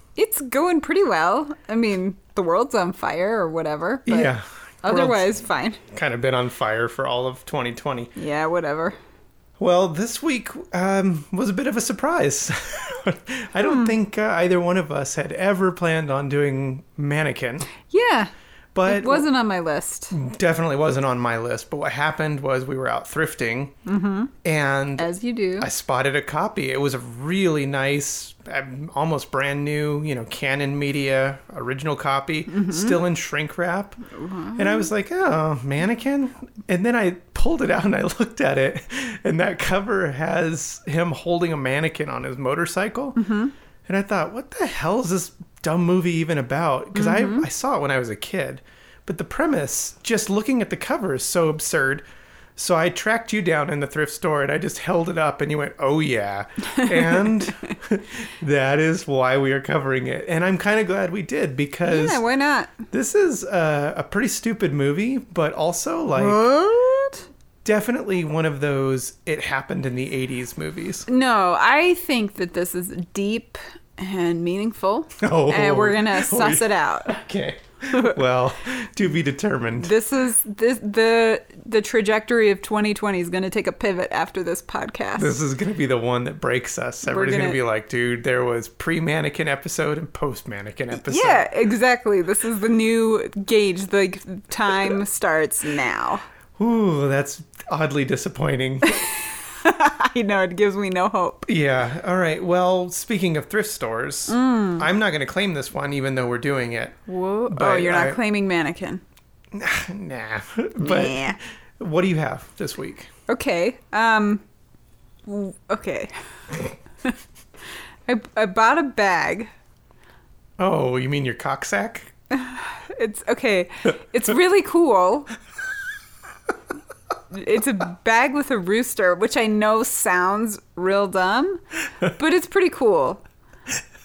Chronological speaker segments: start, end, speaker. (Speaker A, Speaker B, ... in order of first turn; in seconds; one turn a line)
Speaker A: 0.2-5.8
Speaker B: 4.1-5.3
Speaker B: 5.9-8.1
Speaker A: 8.2-9.0
Speaker B: 9.6-17.7
Speaker A: 13.6-13.9
Speaker A: 17.9-18.3
Speaker B: 18.8-19.3
Speaker A: 18.9-20.1
Speaker B: 20.1-23.8
Speaker A: 23.9-24.3
Speaker B: 24.4-34.0
Speaker A: 25.0-25.7
Speaker A: 32.5-33.0
Speaker A: 34.1-34.9
Speaker B: 34.6-43.2
Speaker A: 43.2-43.5
Speaker B: 43.9-52.0
Speaker A: 47.0-47.5
Speaker B: 52.6-62.2
Speaker A: 61.9-62.8
Speaker B: 62.9-66.4
Speaker A: 66.2-67.2
Speaker B: 67.6-71.1
Speaker A: 71.1-77.2
Speaker B: 75.2-79.9
Speaker A: 79.8-85.4
Speaker B: 85.2-91.5
Speaker A: 87.1-87.6
Speaker A: 90.9-96.2
Speaker B: 96.6-99.0
Speaker A: 98.9-101.4
Speaker B: 101.5-107.0
Speaker A: 104.3-104.9
Speaker A: 107.1-109.0
Speaker B: 107.5-108.2
Speaker B: 109.5-113.1
Speaker A: 110.8-111.4
Speaker A: 113.3-114.4
Speaker A: 115.3-116.1
Speaker A: 118.1-119.5
Speaker B: 120.6-122.1
Speaker A: 122.3-125.3
Speaker A: 127.3-133.2